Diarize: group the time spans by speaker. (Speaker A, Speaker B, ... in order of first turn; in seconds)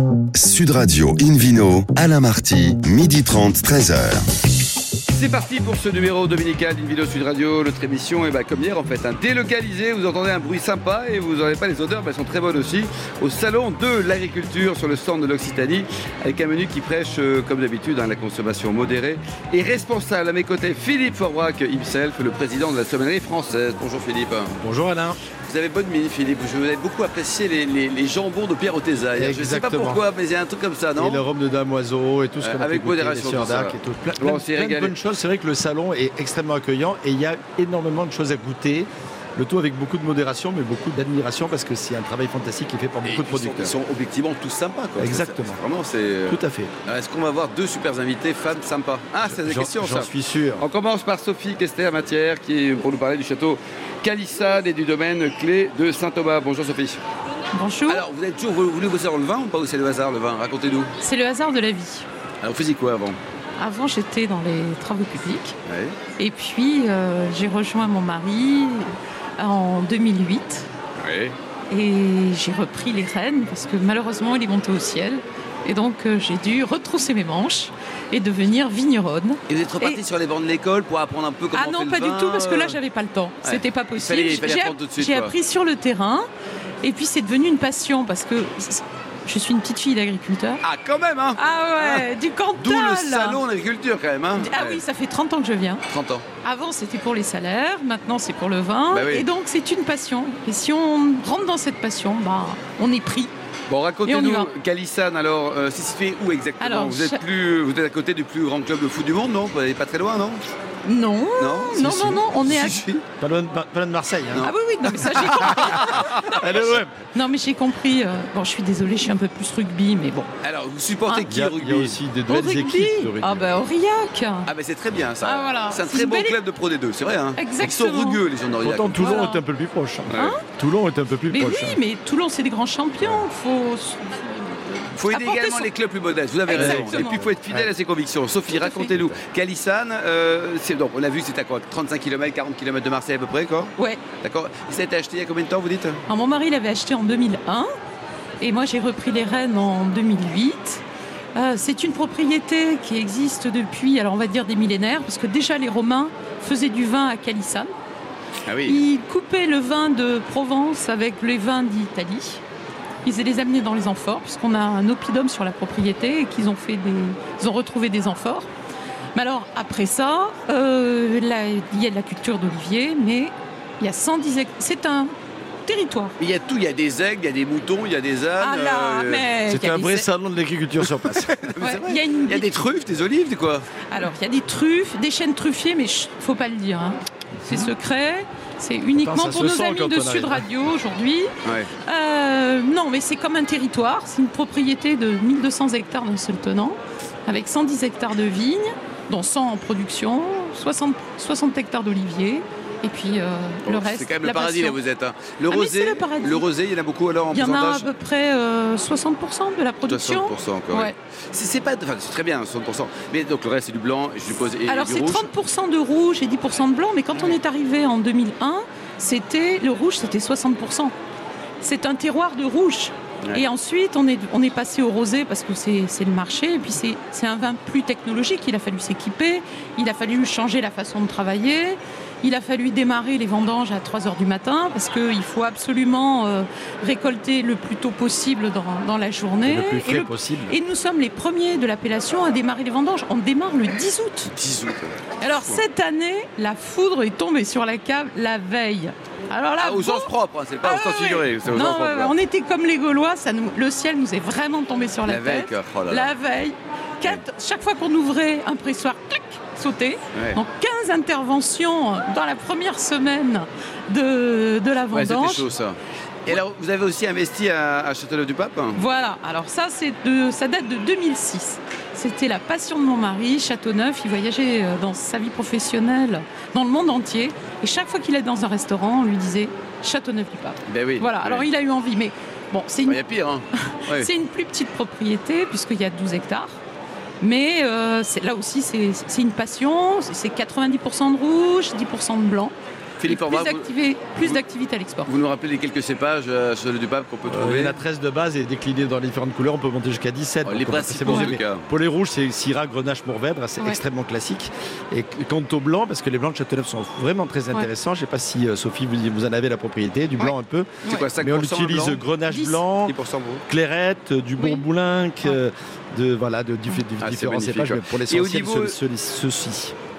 Speaker A: 0.3-4.2
Speaker B: 5.1-24.5, 25.5-31.2, 32.4-34.9, 43.0-57.0, 57.9-60.9, 62.4-63.2, 65.7-66.0, 71.0-71.3, 79.5-82.8, 83.4-85.3, 90.6-92.0, 92.6-94.8, 95.9-96.2, 98.9-99.2, 103.7-110.4, 111.4-113.0, 115.0-116.7, 120.4-122.0, 124.5-128.9, 130.1-130.4, 134.9-146.0, 158.4-158.8, 176.2-179.3, 181.4-183.7, 191.4-191.7, 203.7-207.9, 209.8-215.3, 244.3-245.6, 249.6-252.1, 255.1-256.1, 264.9-265.8, 266.3-268.8, 280.7-281.4, 282.9-284.1, 293.0-293.7, 295.1-297.8, 300.4-301.6, 310.9-312.0, 312.8-313.4, 317.0-318.8
Speaker C: 24.6-25.2, 29.1-30.0, 30.9-43.7, 45.0-45.6, 46.3-46.7, 49.2-50.6, 113.2-114.5, 115.3-117.0, 121.3-123.6, 128.6-131.8, 136.5-137.7, 179.4-181.6, 189.0-190.4, 239.4-240.5, 297.3-312.9, 313.5-319.7
Speaker D: 57.5-58.0, 61.0-62.1, 63.6-65.5, 66.2-70.7, 71.7-80.0, 81.5-86.3, 86.8-90.6, 91.3-93.4, 94.4-95.8, 96.4-103.3, 104.0-104.5, 106.6-107.2, 110.8-112.9, 114.4-120.3, 122.3-124.5, 125.2-126.3, 127.4-128.2, 129.0-129.4, 130.1-130.4, 131.3-135.7, 136.4-137.2, 138.6-138.9, 143.8-144.0, 146.1-147.7, 148.4-150.8, 151.3-157.7, 158.7-162.4, 163.0-168.5, 169.1-175.1, 175.6-176.1, 178.4-180.1, 181.6-182.5, 183.9-191.3, 191.8-204.8, 205.5-206.4, 207.3-210.9, 214.7-220.9, 221.6-244.3, 245.2-265.5, 268.7-283.0, 283.6-286.6, 287.2-295.1, 301.1-301.3, 312.3-312.6